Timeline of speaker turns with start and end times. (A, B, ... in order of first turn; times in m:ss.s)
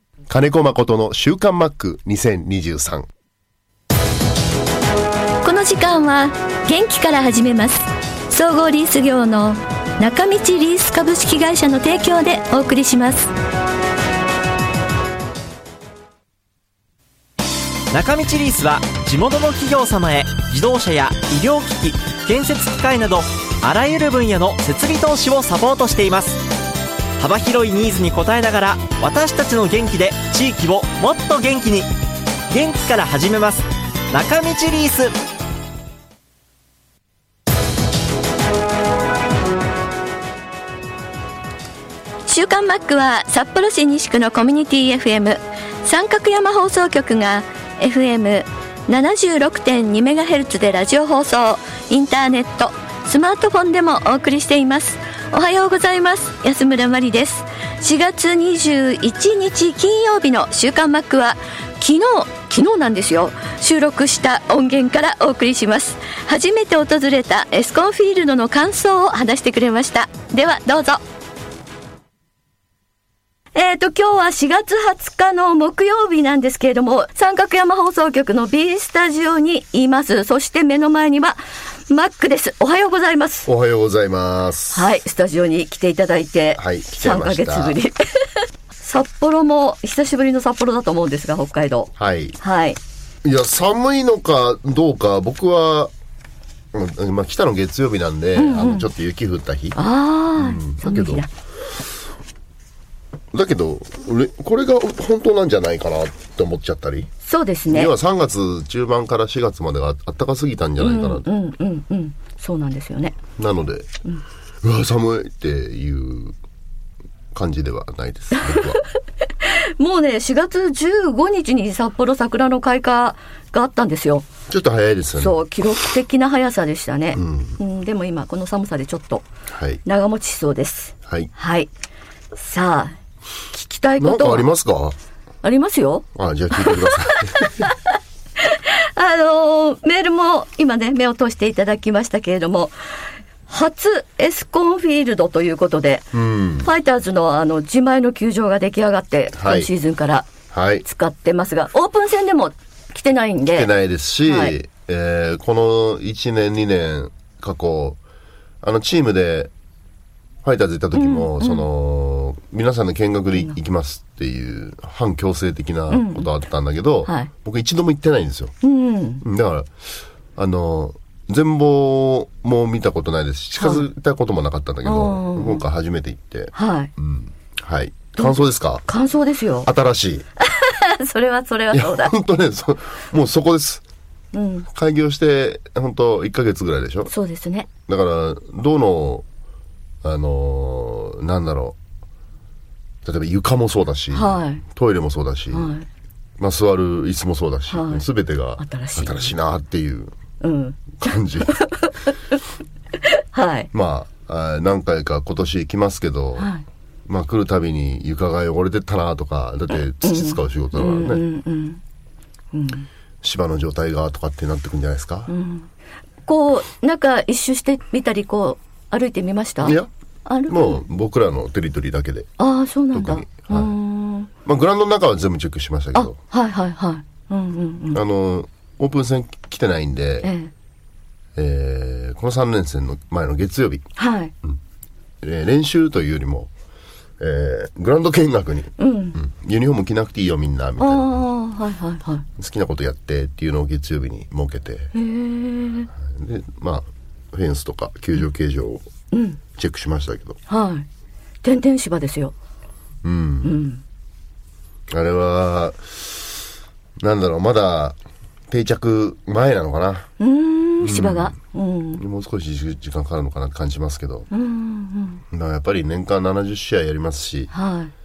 0:00.3-0:03.1 A
0:05.4-0:13.3 B
0:17.9-0:26.4 C
0:27.2-0:31.9 C
0:32.5-0:35.1 C
0:42.2-1:11.0 B
1:13.6-1:23.5 B
1:23.4-1:24.9 A
1:24.7-1:32.8 B
1:26.6-1:27.8 A
1:32.0-1:32.4 A
1:33.2-1:35.9 A
1:36.7-1:39.8 A
1:38.4-1:38.9 B
1:39.7-1:41.3 B
1:40.4-1:41.2 A
1:43.3-1:47.1 A
1:47.2-1:47.9 B
1:47.7-1:51.3 A
1:50.8-1:53.2 B
1:53.4-1:53.9 A
1:54.6-1:56.4 A
1:57.3-1:58.8 A
1:58.3-1:58.9 B
1:59.4-2:04.3 B
2:04.5-2:05.4 A
2:05.2-2:09.2 B
2:07.1-2:07.6 A
2:09.5-2:09.8 A
2:09.8-2:11.7 B
2:11.0-2:11.3 A
2:12.3-2:13.0 B
2:13.5-2:14.5 B
2:14.0-2:15.0 A
2:15.4-2:22.7 B
2:16.1-2:17.7 A
2:23.5-2:30.3 B
2:26.1-2:26.7 A
2:29.3-2:29.7 A
2:30.5-2:30.8 A
2:30.8-2:33.7 B
2:33.5-2:38.0 A
2:34.2-2:34.6 B
2:38.6-2:39.5 A
2:40.4-2:48.5 A
2:40.9-2:41.7 B
2:45.9-2:46.3 B
2:48.6-2:49.2 B
2:49.2-2:49.7 A
2:50.4-2:58.8 A
2:53.6-2:53.8 B
2:54.8-2:55.6 B
2:56.5-2:56.9 B
2:58.2-2:59.7 B
2:59.6-3:00.2 A
3:00.4-3:02.1 B
3:01.7-3:03.8 A
3:04.3-3:04.7 B
3:04.7-3:07.1 A
3:07.1-3:07.7 B
3:07.9-3:09.2 A
3:10.0-3:11.8 A
3:13.0-3:15.7 A
3:14.1-3:14.6 B
3:15.5-3:15.8 B
3:16.4-3:20.1 A
3:17.7-3:18.0 B
3:18.6-3:19.3 B
3:20.4-3:22.4 B
3:21.0-3:21.6 A
3:23.1-3:23.7 B
3:23.7-3:26.5 A
3:26.4-3:26.6 B
3:27.1-3:31.2 A
3:30.0-3:31.8 B
3:32.5-3:32.9 B
3:33.2-3:35.3 A
3:35.3-3:35.7 B
3:36.2-3:40.8 B
3:39.6-3:39.9 A
3:40.5-3:42.3 A
3:42.4-3:44.3 B
3:42.9-3:43.8 A
3:44.4-3:46.2 A
3:45.9-3:48.0 B
3:47.9-3:50.3 A
3:50.2-3:50.5 B
3:51.4-3:53.8 A
3:54.0-3:54.3 B
3:55.2-3:56.5 A
3:57.2-4:01.2 A
3:58.8-3:59.2 B
4:00.8-4:02.2 B
4:02.3-4:04.9 A
4:04.9-4:05.9 B
4:05.9-4:08.8 A
4:09.1-4:09.4 B
4:09.5-4:10.4 A
4:10.5-4:10.8 B
4:11.4-4:12.3 B
4:13.0-4:13.6 A
4:13.4-4:13.8 B
4:14.9-4:16.2 A
4:17.0-4:18.0 A
4:18.5-4:20.1 A
4:20.2-4:22.0 B
4:20.8-4:21.3 A
4:22.0-4:24.3 A
4:24.3-4:25.2 B
4:25.3-4:27.5 A
4:27.5-4:27.9 B